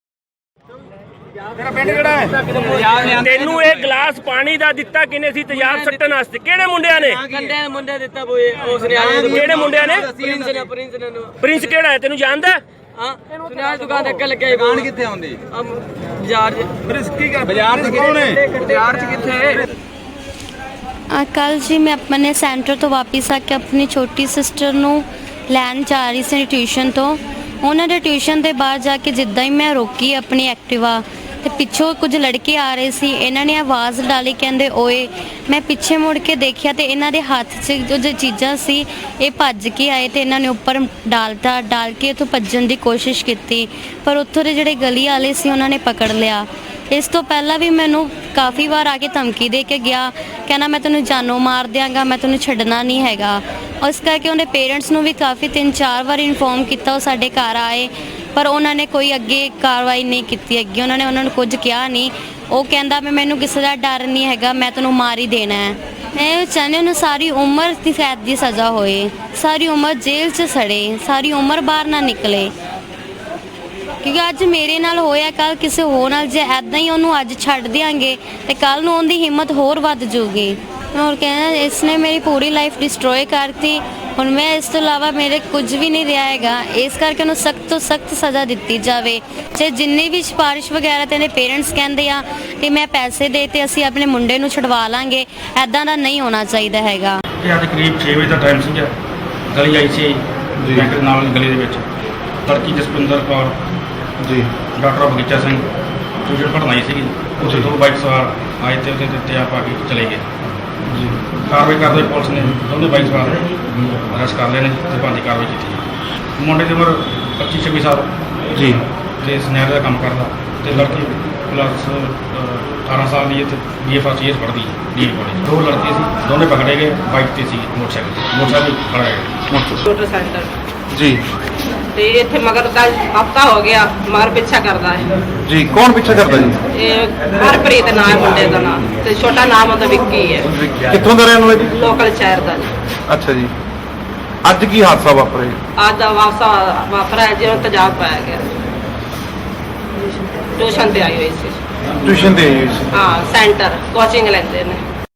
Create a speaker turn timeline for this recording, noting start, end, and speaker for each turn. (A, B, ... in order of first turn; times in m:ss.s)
0:01.6-0:04.0 A
0:03.2-0:07.1 B
0:04.8-0:11.9 A
0:09.3-0:10.1 B
0:11.4-0:12.6 B
0:13.0-0:15.3 A
0:16.1-0:19.6 A
0:21.1-1:12.5 C
1:14.0-1:37.2 C
1:37.4-1:38.9 D
1:39.5-1:41.8 D
1:40.6-1:40.9 E
1:42.4-1:43.6 D
1:44.2-1:44.5 E
1:44.8-1:45.7 D
1:46.2-1:50.3 D
1:50.9-1:51.2 E
1:51.4-1:55.8 D
1:56.4-2:09.4 D
1:58.6-1:58.8 E
2:09.5-2:09.8 E
2:09.8-2:10.5 F
2:10.9-2:11.2 E
2:11.9-2:15.1 F
2:15.5-2:16.6 E
2:16.7-2:20.5 F
2:20.5-2:21.7 E
2:21.7-2:22.7 F
2:23.1-2:23.5 E
2:24.4-2:25.6 E
2:25.8-2:28.5 F
2:30.6-2:31.6 F
2:32.0-2:32.9 E
2:32.9-2:34.8 F